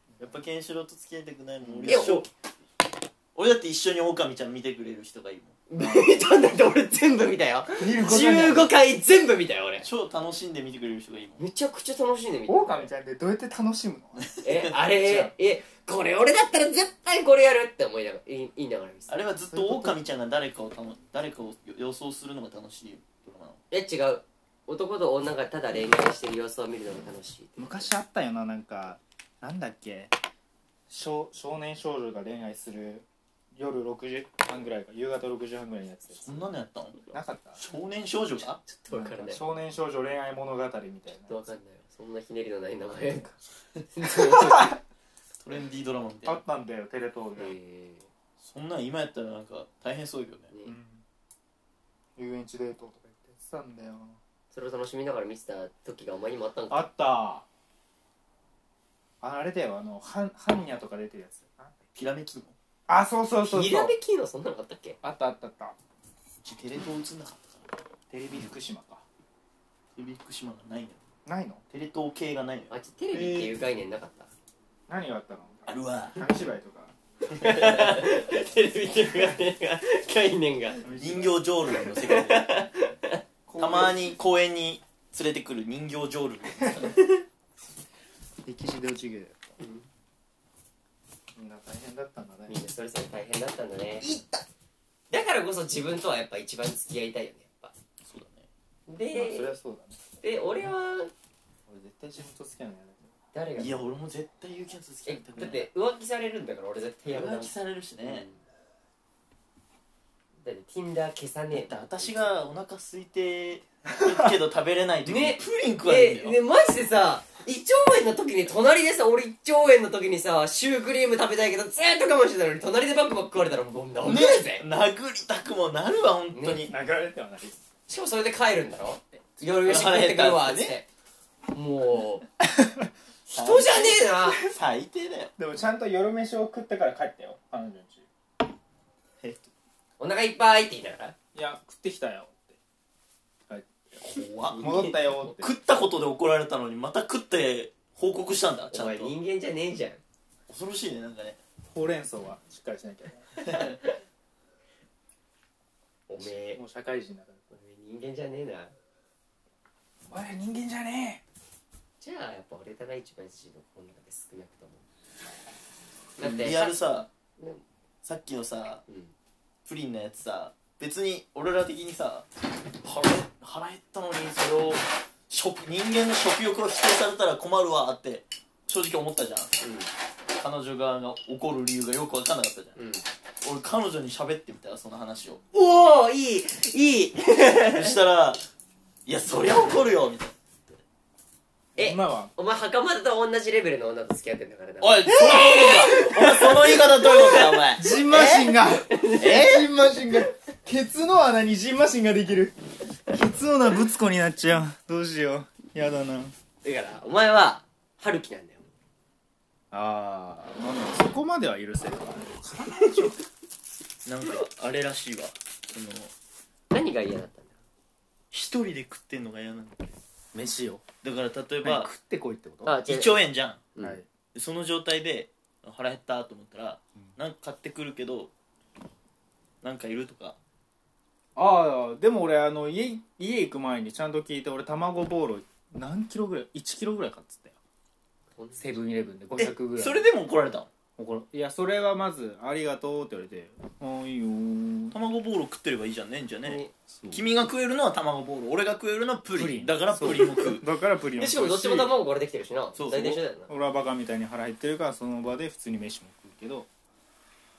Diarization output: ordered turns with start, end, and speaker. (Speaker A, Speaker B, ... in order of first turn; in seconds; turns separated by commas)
Speaker A: 0.2-2.3, Speaker B: 1.7-2.0, Speaker C: 1.9-2.3, Speaker A: 3.4-5.6, Speaker C: 5.7-9.9, Speaker B: 5.8-6.1, Speaker B: 7.8-8.8, Speaker A: 9.8-11.5, Speaker C: 11.4-12.9, Speaker B: 12.5-14.3, Speaker A: 14.2-14.8, Speaker C: 14.4-19.2, Speaker B: 15.0-15.3, Speaker A: 19.1-23.6, Speaker B: 19.5-20.0, Speaker C: 23.7-27.9, Speaker B: 27.6-30.1, Speaker B: 30.9-36.6, Speaker A: 36.1-38.6, Speaker B: 37.1-37.6, Speaker C: 38.6-39.4, Speaker B: 38.9-41.4, Speaker C: 41.2-44.8, Speaker A: 45.4-46.4, Speaker B: 46.2-47.5, Speaker C: 47.4-48.1, Speaker A: 48.4-50.5, Speaker C: 50.5-50.8, Speaker B: 50.6-51.0, Speaker B: 52.2-54.2, Speaker C: 54.5-56.9, Speaker B: 56.7-57.5, Speaker B: 59.2-61.9, Speaker A: 62.0-62.6, Speaker B: 62.9-64.0, Speaker C: 63.4-65.0, Speaker B: 65.0-65.8, Speaker A: 66.4-67.7, Speaker B: 68.1-69.0, Speaker A: 70.0-71.0, Speaker B: 71.3-71.6, Speaker A: 71.7-72.7, Speaker C: 72.7-74.3, Speaker B: 73.1-73.6, Speaker B: 74.9-77.0, Speaker A: 75.7-76.2, Speaker A: 77.3-78.1, Speaker C: 77.4-80.8, Speaker B: 80.8-81.4, Speaker A: 80.9-82.6, Speaker C: 81.7-83.2, Speaker B: 83.5-84.0, Speaker A: 83.6-87.0, Speaker B: 86.6-86.8, Speaker B: 88.5-89.4, Speaker C: 89.6-89.9, Speaker B: 91.4-92.6, Speaker C: 92.5-94.1, Speaker C: 95.1-97.7, Speaker A: 98.0-98.5, Speaker C: 98.9-99.5, Speaker B: 99.1-100.0, Speaker C: 100.2-101.1, Speaker B: 101.7-103.2, Speaker C: 103.3-103.9, Speaker A: 103.6-105.7, Speaker C: 105.1-108.4, Speaker A: 107.1-108.3, Speaker C: 110.4-112.3, Speaker A: 111.5-116.4, Speaker C: 115.0-124.7, Speaker A: 124.0-126.7, Speaker C: 126.3-126.6, Speaker B: 126.6-127.6, Speaker C: 127.9-130.9, Speaker A: 129.7-130.8, Speaker C: 131.5-132.2, Speaker B: 132.6-132.9, Speaker C: 133.3-134.4, Speaker A: 133.3-135.3, Speaker B: 135.4-138.1, Speaker A: 139.2-139.5, Speaker C: 140.0-141.2, Speaker B: 141.3-142.6, Speaker B: 143.5-145.5, Speaker A: 144.0-149.2, Speaker C: 144.5-145.1, Speaker C: 148.7-150.0, Speaker A: 150.5-151.4, Speaker B: 151.7-153.3, Speaker A: 153.4-153.8, Speaker C: 156.1-156.6, Speaker B: 156.2-157.4, Speaker C: 157.5-158.8, Speaker B: 160.1-161.2, Speaker C: 162.0-164.8, Speaker C: 166.2-167.6, Speaker A: 166.2-167.1, Speaker A: 168.0-168.8, Speaker C: 168.9-169.1, Speaker A: 169.7-172.3, Speaker A: 172.8-179.6, Speaker C: 179.6-179.9, Speaker A: 180.3-182.8, Speaker C: 182.8-183.0, Speaker A: 183.4-185.5, Speaker C: 185.5-187.9, Speaker A: 187.7-188.4, Speaker A: 189.1-190.4, Speaker C: 191.8-199.5, Speaker B: 191.8-192.3, Speaker A: 194.8-197.8, Speaker B: 197.8-202.6, Speaker A: 199.2-199.7, Speaker B: 203.1-206.3, Speaker C: 206.6-208.7, Speaker B: 209.7-213.2, Speaker A: 214.1-216.1, Speaker C: 216.7-217.6, Speaker A: 218.3-220.0, Speaker B: 220.3-220.8, Speaker A: 221.0-221.9, Speaker B: 221.6-222.8, Speaker C: 222.6-223.2, Speaker A: 222.8-223.7, Speaker C: 223.8-224.0, Speaker B: 223.8-224.1, Speaker A: 224.3-228.3, Speaker A: 229.6-230.4, Speaker B: 231.4-237.6, Speaker C: 238.3-238.8, Speaker B: 238.6-240.1, Speaker A: 239.3-240.7, Speaker B: 241.0-245.0, Speaker A: 244.9-250.7, Speaker C: 246.4-246.7, Speaker B: 246.9-247.2, Speaker B: 249.3-251.9, Speaker C: 251.2-253.5, Speaker A: 252.8-253.2, Speaker B: 253.5-256.7